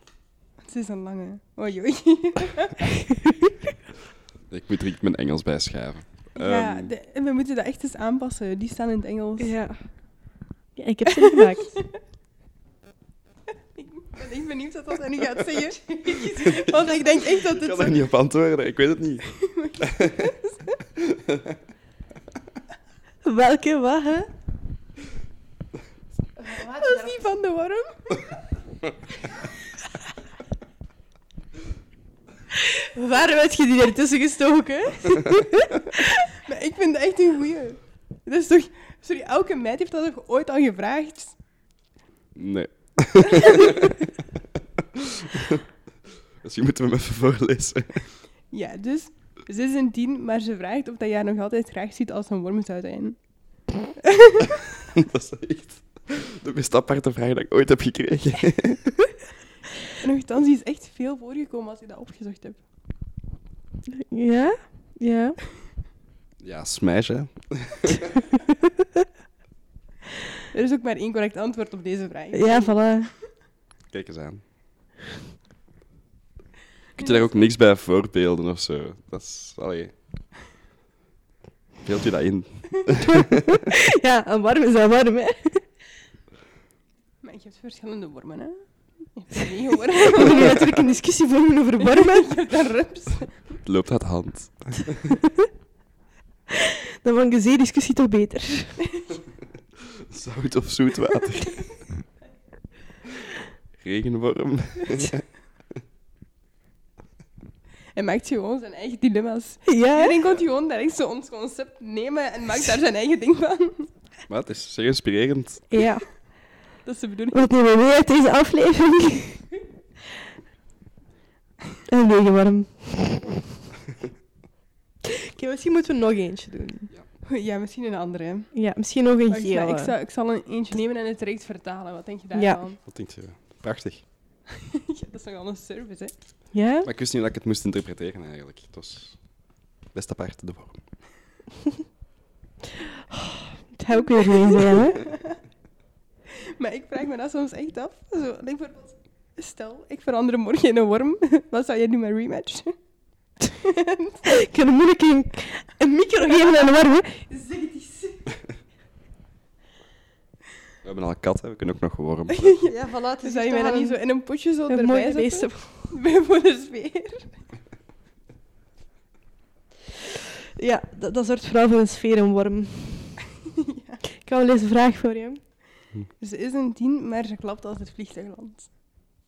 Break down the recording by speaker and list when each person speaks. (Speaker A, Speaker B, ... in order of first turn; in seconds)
Speaker A: 0.6-2.8, 6.4-9.6, 13.8-18.0, 19.3-20.8, 26.5-28.3, 36.4-41.4, 43.4-43.8, 48.5-54.6, 60.0-62.6, 70.5-73.0, 77.0-77.4, 87.2-88.6, 89.1-90.8, 91.8-93.6, 98.9-99.1, 108.0-113.9, 116.8-117.5, 127.2-128.6, 129.3-132.8, 134.5-136.1, 144.4-145.4, 146.4-152.7, 153.6-154.4, 156.3-158.4, 162.3-167.3, 173.6-174.0, 176.2-178.7
Speaker B: 4.5-6.9, 16.3-19.2, 19.8-20.3, 21.0-21.6, 42.4-44.0, 44.8-45.6, 46.4-48.0, 54.9-58.9, 66.4-68.2, 73.9-74.4, 77.0-79.9, 81.8-83.6, 93.6-95.1, 100.0-101.8, 103.8-105.2, 114.3-115.7, 132.9-134.1, 136.8-139.2, 139.9-140.8, 160.8-162.6
Speaker C: 9.4-11.8, 23.2-24.3, 26.4-27.2, 32.5-36.3, 63.9-65.4, 68.5-68.8, 72.3-73.1, 83.0-85.7, 90.1-92.3, 95.2-95.5, 96.5-98.9, 109.7-110.2, 115.7-116.1, 117.3-119.5, 121.9-123.4, 125.3-126.9, 128.5-129.9, 132.3-132.6, 136.5-136.9, 143.1-145.1, 154.3-157.2, 162.7-164.0, 164.7-165.9, 170.6-173.2, 174.2-175.4